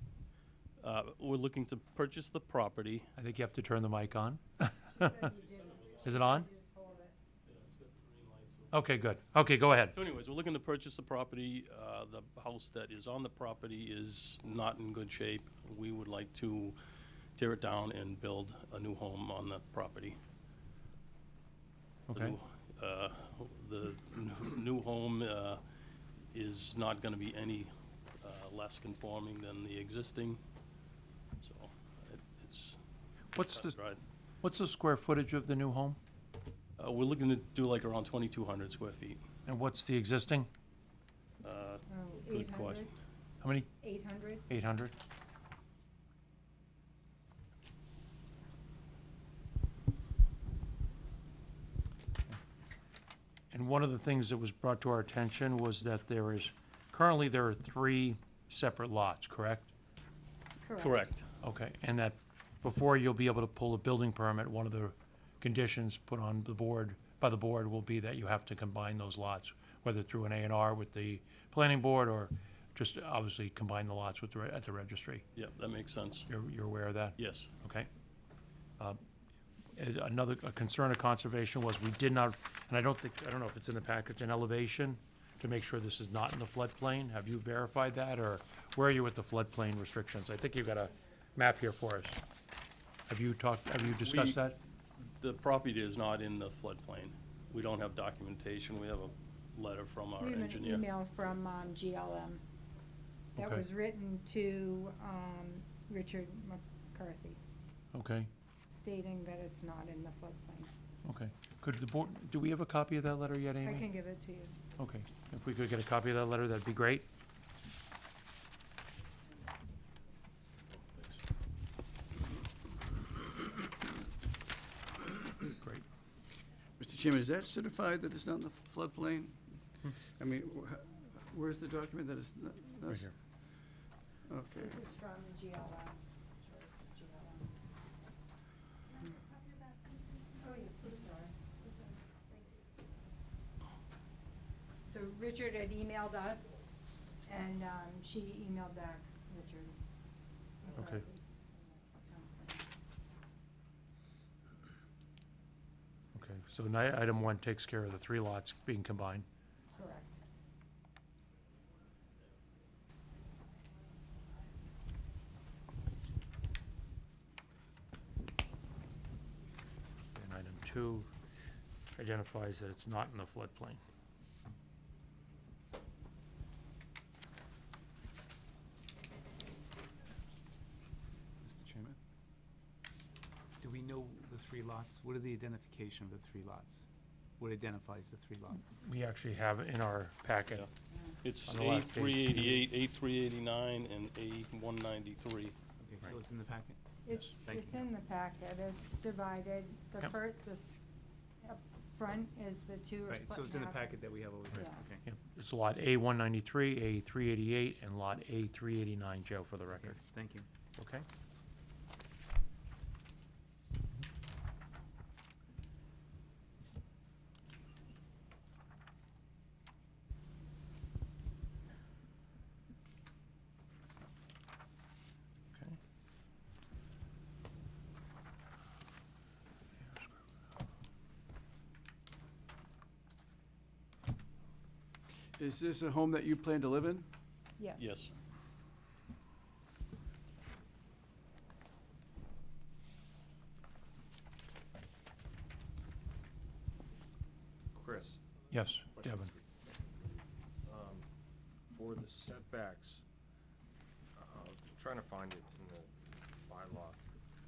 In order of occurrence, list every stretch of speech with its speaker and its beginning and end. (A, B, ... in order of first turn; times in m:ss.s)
0:00.8-0:03.1 A
0:03.2-0:05.1 B
0:04.9-0:07.2 C
0:06.0-0:06.5 B
0:07.4-0:08.8 A
0:08.7-0:10.0 B
0:09.9-0:16.8 A
0:17.4-0:20.2 A
0:22.1-0:22.4 B
0:22.1-0:25.6 A
0:26.3-0:30.4 A
0:31.4-0:32.8 A
0:33.3-0:33.7 B
0:33.4-0:34.0 A
0:34.4-0:36.0 B
0:36.8-0:39.2 A
0:39.5-0:40.5 B
0:41.4-0:42.9 A
0:41.9-0:42.9 C
0:43.4-0:43.7 B
0:43.8-0:44.4 C
0:44.5-0:44.9 B
0:53.5-0:59.7 B
1:00.6-1:01.1 C
1:00.8-1:01.3 A
1:01.4-1:15.2 B
1:15.4-1:16.3 A
1:16.3-1:17.9 B
1:17.2-1:17.5 A
1:19.8-1:32.2 B
1:33.1-1:34.6 B
1:33.8-1:34.4 A
1:35.0-1:40.9 A
1:40.2-1:42.4 C
1:43.4-1:43.6 B
1:43.4-1:47.4 C
1:47.9-1:48.3 B
1:48.7-1:50.7 C
1:51.0-1:53.9 B
1:53.6-1:54.6 C
1:54.8-1:57.1 B
2:06.8-2:09.4 D
2:10.2-2:13.1 D
2:14.3-2:14.8 D
2:14.6-2:17.6 C
2:20.4-2:22.0 C
2:24.8-2:26.7 C
2:27.3-2:29.8 C
2:30.6-2:32.7 C
2:30.8-2:31.0 B
2:36.2-2:39.3 B
2:39.8-2:40.2 C
2:50.2-2:51.1 B
2:52.0-2:53.8 B
3:01.4-3:02.0 E
3:03.6-3:06.9 E
3:07.4-3:08.7 E
3:08.8-3:10.7 B
3:11.2-3:15.6 A
3:11.5-3:12.6 B
3:15.8-3:16.8 E
3:17.0-3:20.8 C
3:17.4-3:17.8 E
3:21.4-3:24.0 C
3:23.1-3:25.0 E
3:24.5-3:24.8 C
3:25.1-3:30.0 B
3:29.7-3:30.5 E
3:30.8-3:31.1 B
3:55.4-3:57.1 D
3:57.6-3:58.0 C
3:57.8-3:58.1 A
4:07.8-4:08.2 F
4:08.5-4:09.3 B
4:08.9-4:11.0 F
4:11.7-4:13.0 F
4:14.2-4:15.9 F
4:16.5-4:17.0 F